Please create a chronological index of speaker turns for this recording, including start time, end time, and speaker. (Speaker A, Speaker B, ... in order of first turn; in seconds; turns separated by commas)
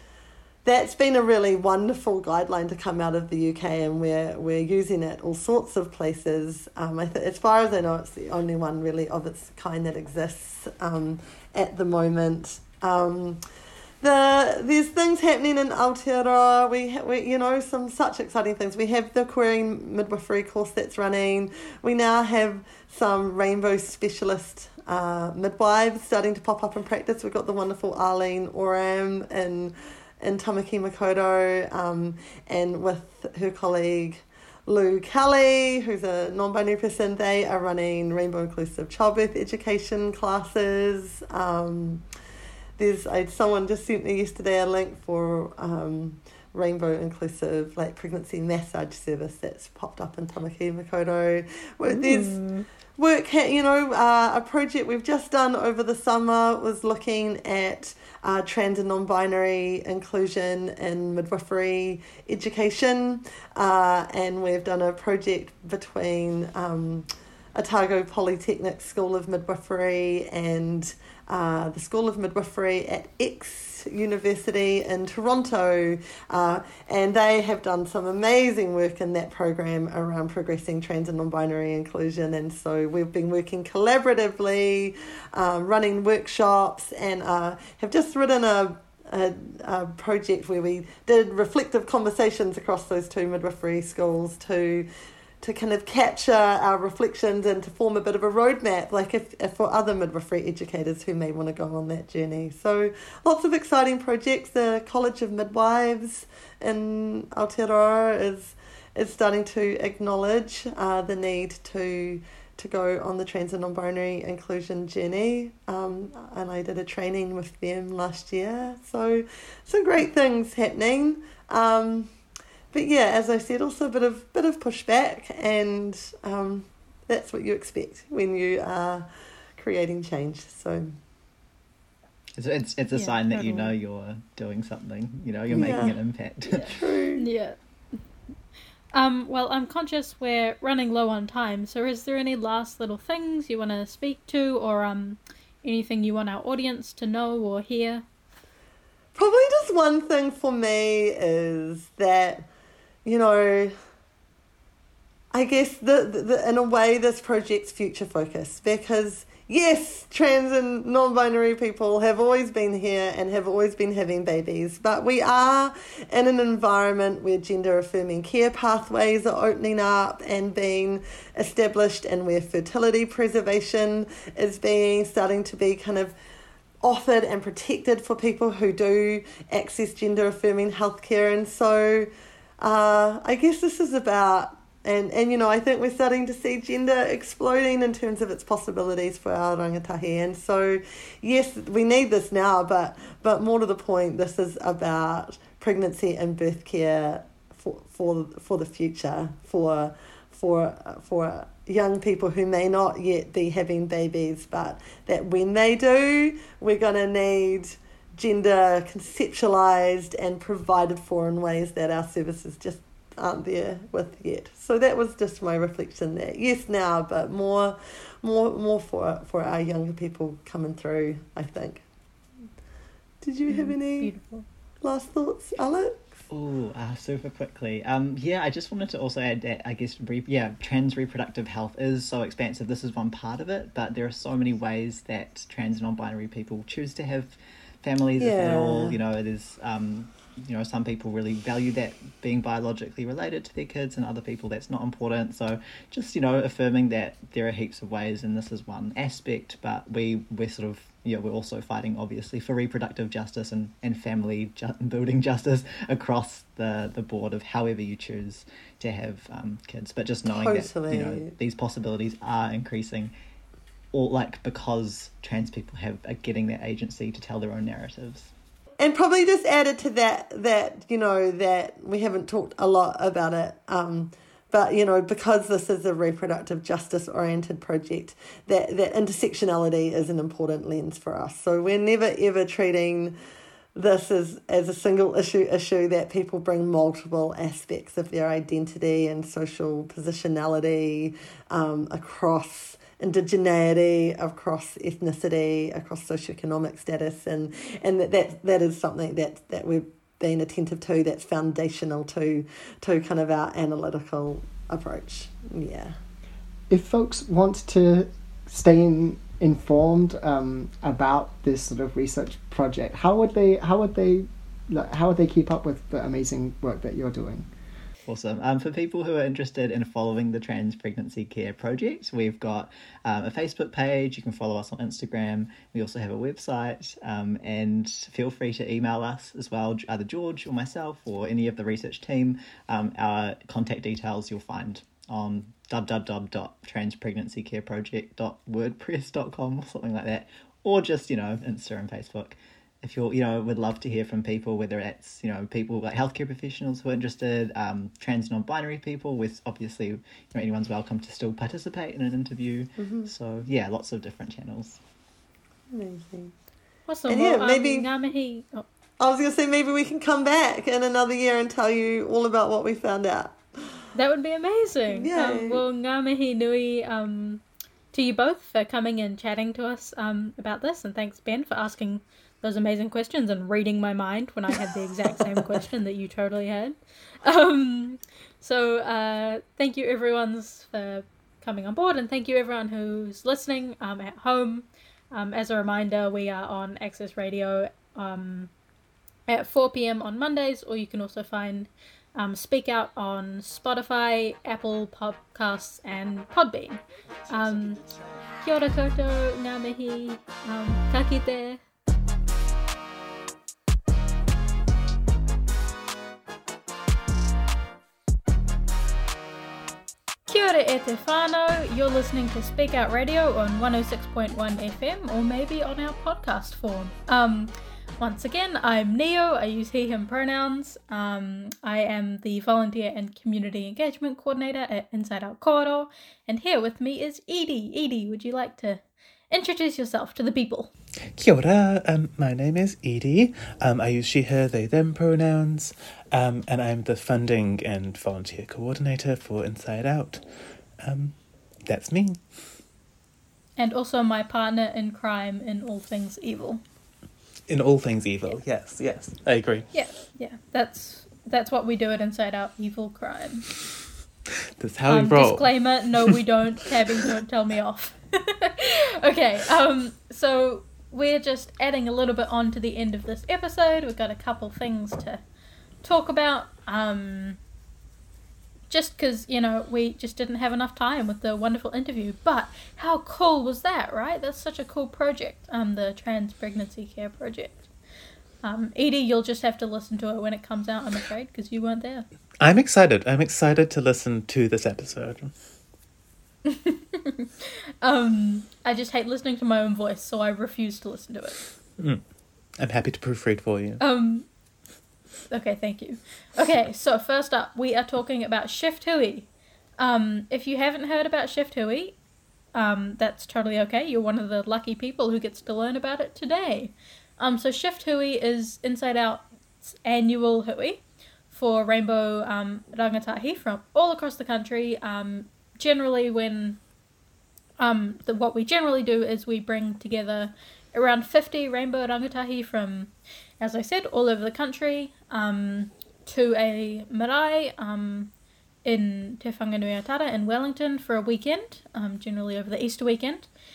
Speaker A: 0.6-13.4, Speaker A: 14.0-42.0, Speaker A: 42.8-94.9, Speaker B: 51.9-52.6, Speaker A: 95.4-122.1, Speaker A: 122.7-130.9, Speaker C: 132.4-136.7, Speaker B: 132.9-133.7, Speaker A: 135.5-136.0, Speaker A: 136.6-137.2, Speaker B: 137.2-137.6, Speaker B: 138.9-148.0, Speaker A: 149.1-152.5, Speaker A: 153.0-153.7, Speaker A: 155.3-176.1, Speaker A: 176.8-221.8, Speaker A: 223.2-224.1, Speaker B: 223.5-224.4, Speaker A: 224.8-226.1, Speaker C: 226.3-263.1, Speaker A: 238.2-239.0, Speaker A: 260.3-261.3, Speaker C: 263.9-268.3, Speaker A: 268.8-283.1, Speaker A: 283.7-306.0, Speaker D: 306.7-317.5, Speaker C: 318.1-354.8, Speaker A: 352.8-353.1, Speaker A: 355.7-356.3, Speaker B: 356.9-358.6, Speaker A: 357.1-357.9, Speaker A: 359.0-363.8, Speaker B: 363.9-388.5, Speaker A: 364.9-365.6, Speaker A: 374.5-375.5, Speaker B: 389.3-397.8, Speaker B: 398.4-401.6, Speaker B: 410.3-430.7, Speaker E: 431.1-440.2, Speaker E: 440.8-442.2, Speaker B: 443.6-446.6, Speaker E: 447.5-449.7, Speaker B: 449.7-453.5, Speaker E: 454.6-455.5, Speaker B: 454.9-465.2, Speaker B: 465.8-467.4, Speaker B: 468.7-477.7, Speaker B: 478.4-482.1, Speaker E: 482.4-485.3, Speaker B: 486.4-491.4, Speaker E: 492.6-493.8, Speaker B: 493.8-494.3, Speaker B: 495.3-502.0, Speaker B: 502.5-516.6, Speaker B: 517.6-528.1, Speaker B: 528.6-533.3